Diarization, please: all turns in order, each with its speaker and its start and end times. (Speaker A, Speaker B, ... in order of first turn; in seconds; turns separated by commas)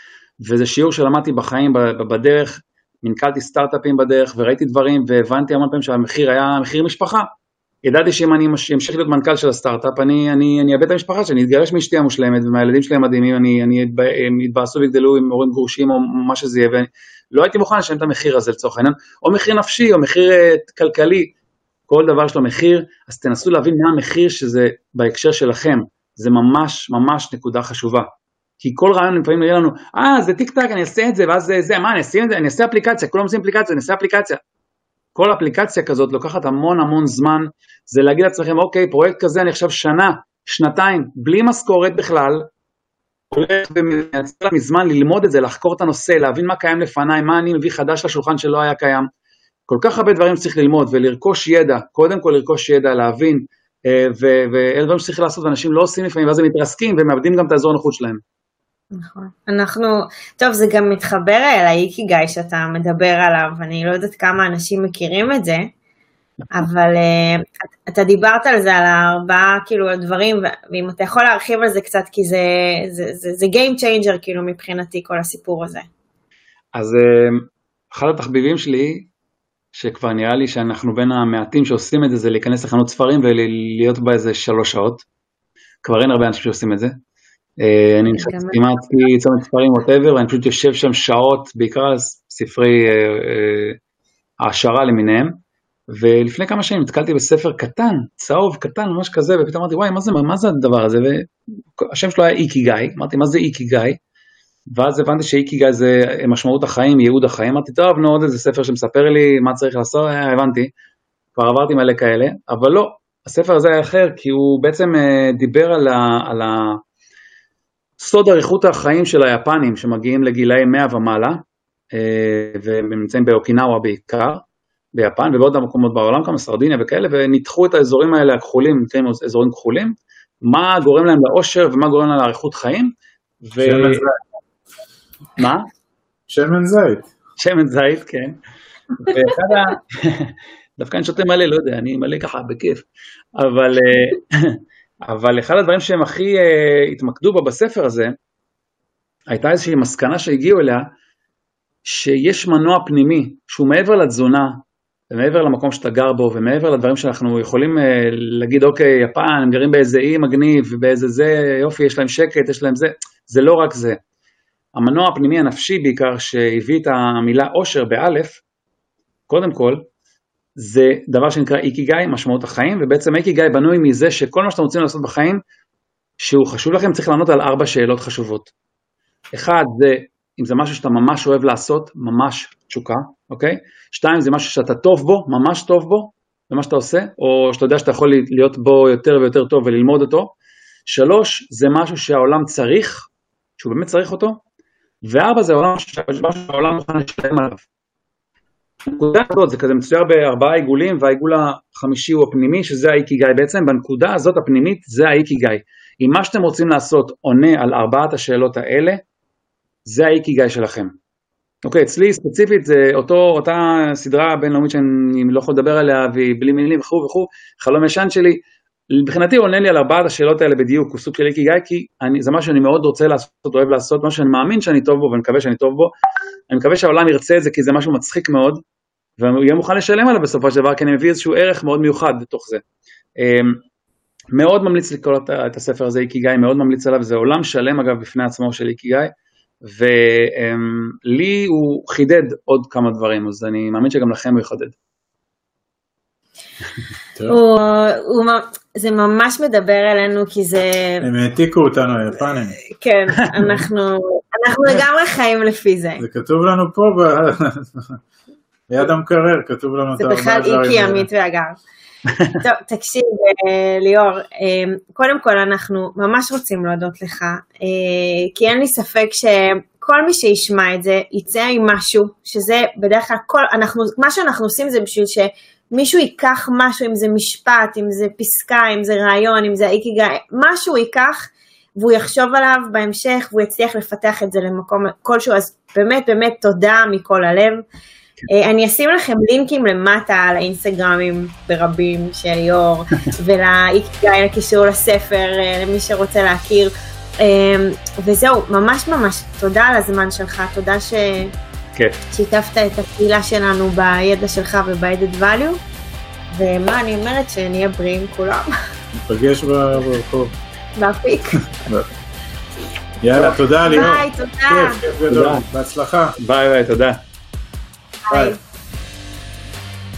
Speaker A: 0.4-7.3, Speaker A: 7.8-21.3, Speaker A: 21.9-28.1, Speaker A: 28.6-34.4, Speaker A: 35.1-42.4, Speaker A: 43.3-49.1, Speaker A: 49.7-58.2, Speaker B: 58.9-65.7, Speaker B: 66.5-75.9, Speaker A: 76.7-79.1, Speaker A: 79.7-85.0, Speaker A: 85.8-86.9, Speaker A: 87.6-93.8, Speaker B: 88.1-88.8, Speaker A: 94.4-95.4, Speaker A: 95.9-101.2, Speaker A: 101.8-104.0, Speaker A: 104.7-110.7, Speaker A: 111.3-116.8, Speaker A: 118.0-121.4, Speaker A: 121.9-124.4, Speaker A: 124.9-132.9, Speaker A: 133.4-134.0, Speaker C: 133.6-134.2, Speaker A: 135.4-135.6, Speaker C: 136.3-137.1, Speaker A: 137.4-138.4, Speaker A: 139.0-142.8, Speaker A: 143.4-148.1, Speaker A: 149.3-150.9, Speaker A: 151.8-164.0, Speaker A: 164.7-168.4, Speaker A: 169.3-169.9, Speaker A: 170.6-175.4, Speaker A: 176.2-178.5, Speaker A: 179.3-190.3, Speaker A: 190.8-193.1, Speaker A: 193.6-194.4, Speaker A: 195.0-197.6, Speaker A: 198.9-209.0, Speaker A: 209.8-210.9, Speaker A: 211.6-225.9, Speaker A: 226.5-228.6, Speaker A: 229.2-232.6, Speaker A: 233.2-233.6, Speaker A: 234.3-239.1, Speaker A: 239.6-244.7, Speaker B: 247.3-251.1, Speaker C: 251.0-252.6, Speaker B: 252.7-256.0, Speaker C: 256.0-257.9, Speaker C: 258.7-261.1, Speaker B: 260.0-261.6, Speaker B: 262.4-287.6, Speaker B: 288.3-301.3, Speaker B: 302.1-305.6, Speaker B: 306.3-308.5, Speaker C: 309.0-310.3, Speaker B: 310.8-311.4, Speaker C: 313.0-316.1, Speaker B: 313.6-314.8, Speaker A: 315.1-315.4, Speaker A: 316.2-317.0, Speaker C: 318.1-318.4, Speaker B: 318.1-318.4